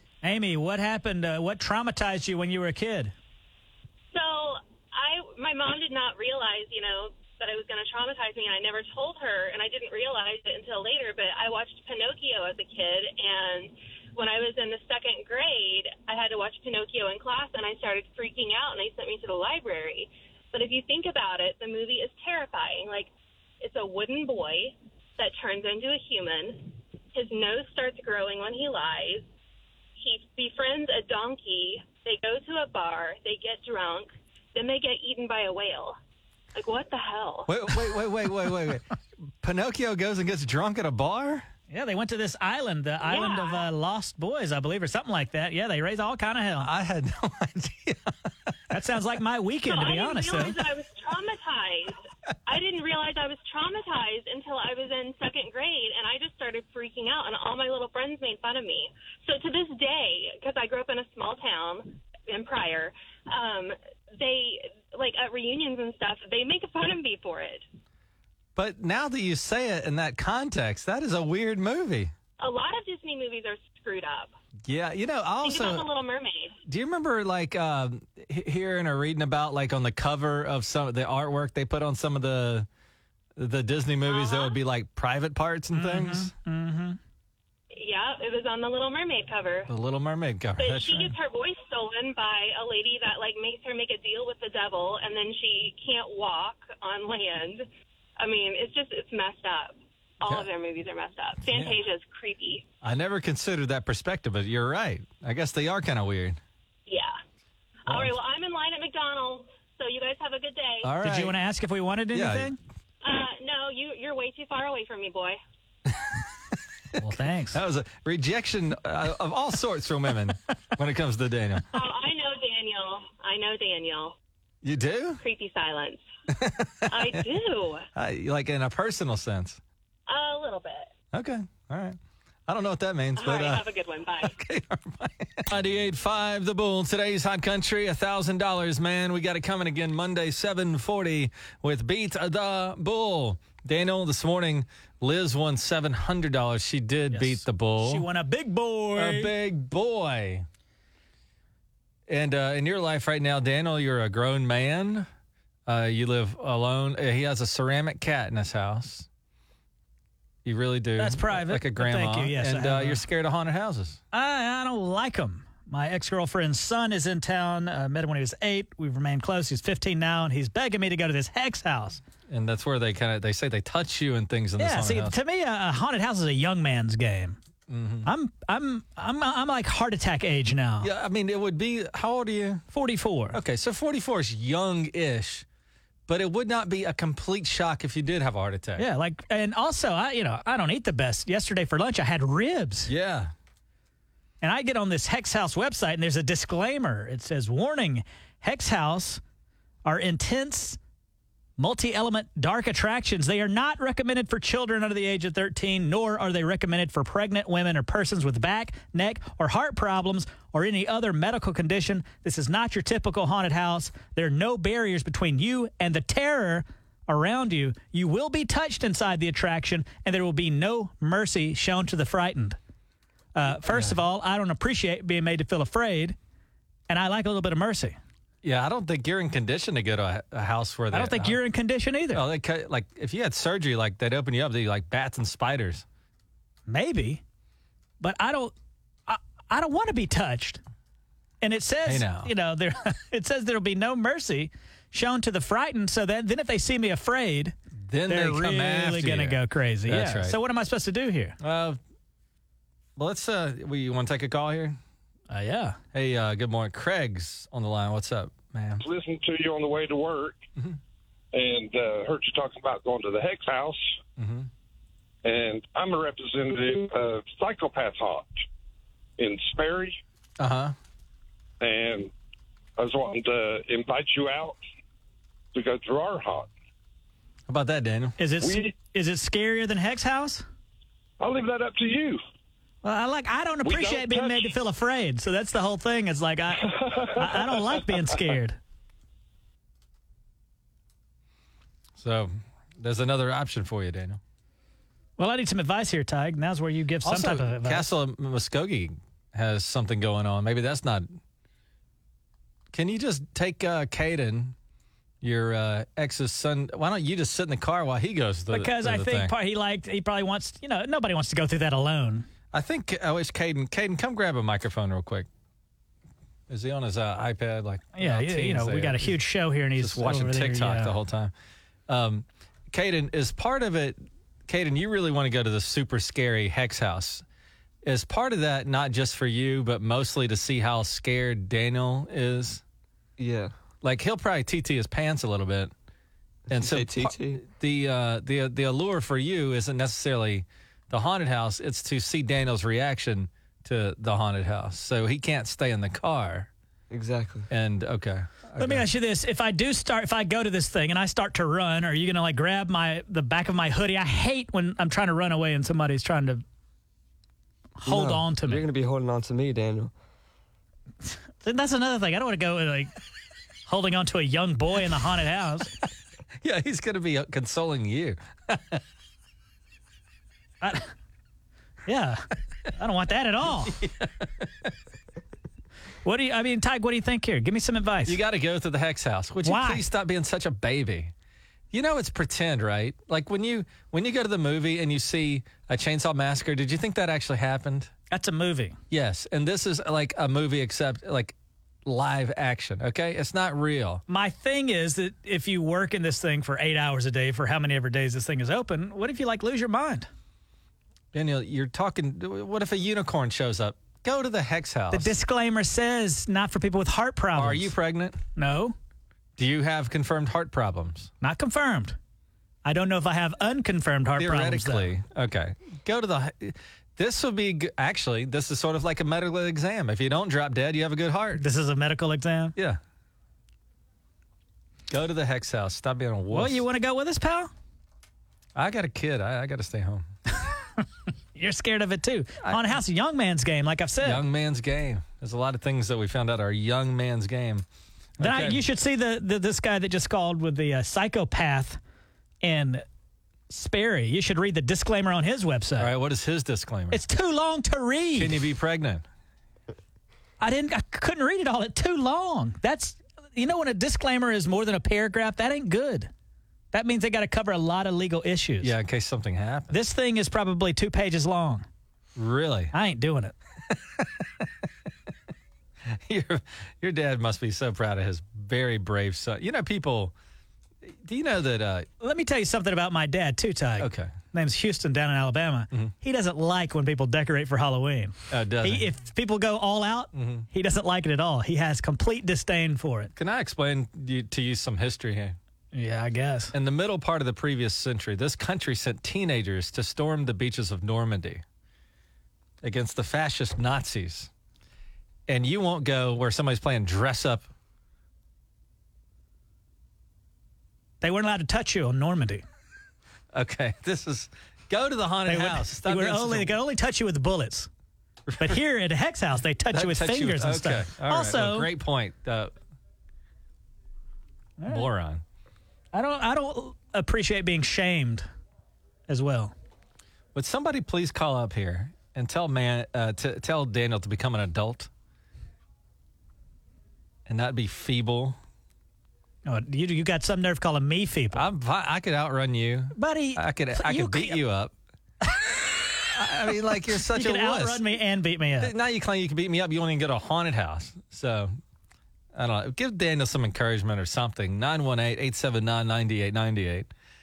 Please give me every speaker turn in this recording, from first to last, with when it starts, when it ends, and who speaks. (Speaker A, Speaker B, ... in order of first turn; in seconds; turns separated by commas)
Speaker A: 0.2-3.1, Speaker B: 4.1-23.1, Speaker B: 23.6-29.3, Speaker B: 30.0-36.0, Speaker B: 36.5-37.5, Speaker C: 37.5-38.9, Speaker C: 39.4-41.5, Speaker A: 41.7-46.7, Speaker B: 43.0-43.7, Speaker C: 46.6-48.3, Speaker A: 48.7-50.6, Speaker B: 49.6-67.7, Speaker C: 68.6-72.1, Speaker B: 72.4-74.3, Speaker C: 74.7-75.9, Speaker B: 75.4-76.6, Speaker C: 76.7-82.7, Speaker C: 83.4-86.3, Speaker B: 84.0-84.6, Speaker A: 85.7-87.0, Speaker B: 87.7-89.7, Speaker C: 89.7-91.2, Speaker B: 90.6-97.7, Speaker B: 98.2-102.7, Speaker C: 100.2-100.5, Speaker C: 101.5-101.8, Speaker C: 102.8-106.4, Speaker B: 106.9-107.2, Speaker B: 107.9-110.9, Speaker C: 107.9-108.2, Speaker C: 110.8-111.4, Speaker A: 111.0-112.6, Speaker C: 112.1-112.6, Speaker B: 113.0-115.4, Speaker C: 115.9-116.2, Speaker A: 117.0-117.6, Speaker C: 117.5-121.7, Speaker B: 121.7-124.2, Speaker C: 124.6-125.2, Speaker B: 125.2-126.0, Speaker C: 126.3-127.2, Speaker B: 126.9-127.9, Speaker C: 128.0-129.6, Speaker B: 130.1-130.9, Speaker C: 131.1-133.7, Speaker B: 133.2-134.3, Speaker C: 134.2-148.1, Speaker A: 147.1-149.3, Speaker C: 149.0-150.5, Speaker C: 152.1-155.1, Speaker C: 155.7-159.1, Speaker C: 160.4-164.0, Speaker A: 161.0-163.0, Speaker A: 164.1-172.0, Speaker C: 172.3-175.2, Speaker A: 174.6-177.4, Speaker C: 177.7-178.1, Speaker A: 178.1-180.9, Speaker C: 180.8-182.7, Speaker A: 182.7-183.4, Speaker C: 183.3-185.5, Speaker C: 186.1-188.8, Speaker A: 188.8-192.9, Speaker C: 192.9-193.3, Speaker A: 194.4-199.2, Speaker A: 199.8-200.8, Speaker A: 201.6-222.6, Speaker A: 223.3-226.2, Speaker C: 223.6-224.0, Speaker A: 226.9-228.0, Speaker C: 228.4-231.4, Speaker A: 230.9-232.2, Speaker C: 232.1-235.8, Speaker A: 236.7-237.2, Speaker A: 238.0-238.5, Speaker A: 239.1-240.6, Speaker A: 241.4-247.6, Speaker C: 241.9-242.3, Speaker C: 247.8-250.4, Speaker A: 248.1-251.4, Speaker C: 251.4-251.8, Speaker C: 253.0-254.8, Speaker A: 255.3-255.8, Speaker C: 255.9-258.8, Speaker D: 258.8-260.4, Speaker D: 261.3-263.9, Speaker C: 264.2-264.5, Speaker D: 265.2-268.4, Speaker D: 269.2-270.0, Speaker C: 270.4-270.8, Speaker D: 271.6-272.1, Speaker D: 272.8-274.6, Speaker D: 275.5-276.5, Speaker C: 277.5-278.2, Speaker A: 278.2-280.4, Speaker D: 278.4-278.7, Speaker D: 281.2-282.2, Speaker A: 282.8-288.6, Speaker D: 283.6-284.5, Speaker C: 292.0-294.2, Speaker A: 295.2-297.9, Speaker C: 297.0-301.1, Speaker C: 302.7-304.6, Speaker C: 305.2-309.3, Speaker A: 308.5-312.3, Speaker C: 312.5-315.3, Speaker C: 316.5-319.2, Speaker A: 317.9-320.9, Speaker C: 319.8-321.3, Speaker C: 321.9-327.2, Speaker C: 327.8-332.6, Speaker E: 333.2-333.5, Speaker C: 333.8-335.7, Speaker E: 336.5-337.4, Speaker C: 336.5-346.5, Speaker E: 346.9-347.5, Speaker C: 347.5-348.9, Speaker A: 348.6-356.4, Speaker A: 357.8-358.6, Speaker E: 357.9-359.9, Speaker A: 361.4-362.9, Speaker A: 363.7-365.7, Speaker C: 366.4-368.8, Speaker A: 370.6-370.9, Speaker A: 371.9-372.2, Speaker A: 372.8-373.8, Speaker C: 373.6-374.1, Speaker A: 376.0-378.2, Speaker C: 378.1-381.1, Speaker A: 379.4-379.9, Speaker C: 381.7-387.9, Speaker A: 388.1-388.8, Speaker C: 388.9-394.0, Speaker A: 394.1-400.1, Speaker C: 401.1-405.1, Speaker A: 404.9-407.7, Speaker C: 407.4-408.2, Speaker A: 408.4-408.8, Speaker C: 409.4-411.1, Speaker A: 411.2-412.0, Speaker A: 412.6-414.9, Speaker C: 414.2-421.4, Speaker A: 421.4-422.6, Speaker C: 424.9-426.7, Speaker A: 426.3-427.5, Speaker C: 428.6-430.1, Speaker A: 431.4-434.2, Speaker C: 432.4-432.8, Speaker C: 434.0-437.6, Speaker C: 438.2-438.6, Speaker A: 438.2-441.8, Speaker A: 442.4-442.8, Speaker A: 443.5-445.9, Speaker C: 445.8-447.0, Speaker A: 446.9-448.4, Speaker C: 448.2-449.1, Speaker A: 450.4-456.1, Speaker A: 456.7-458.8, Speaker C: 458.6-459.8, Speaker A: 459.7-461.6, Speaker C: 462.1-462.7, Speaker A: 462.7-463.3, Speaker C: 465.8-470.1, Speaker C: 470.8-471.9, Speaker A: 472.0-483.1, Speaker C: 473.8-474.1, Speaker C: 478.3-478.9, Speaker C: 480.1-480.5, Speaker C: 483.2-485.4, Speaker A: 485.7-486.5, Speaker C: 486.5-491.4, Speaker C: 492.6-494.3, Speaker C: 495.3-497.5, Speaker A: 501.0-502.4, Speaker C: 503.3-506.6, Speaker A: 505.3-507.7, Speaker C: 508.3-508.6, Speaker A: 508.4-511.7, Speaker C: 509.7-512.5, Speaker A: 514.6-514.9, Speaker C: 514.7-515.2, Speaker A: 515.9-518.3, Speaker A: 519.1-519.5, Speaker C: 520.4-524.9, Speaker C: 527.3-528.4, Speaker A: 529.5-531.5, Speaker C: 531.3-534.7, Speaker A: 533.0-534.4, Speaker C: 536.1-537.8, Speaker A: 537.1-538.7, Speaker C: 538.6-541.5, Speaker C: 542.3-546.9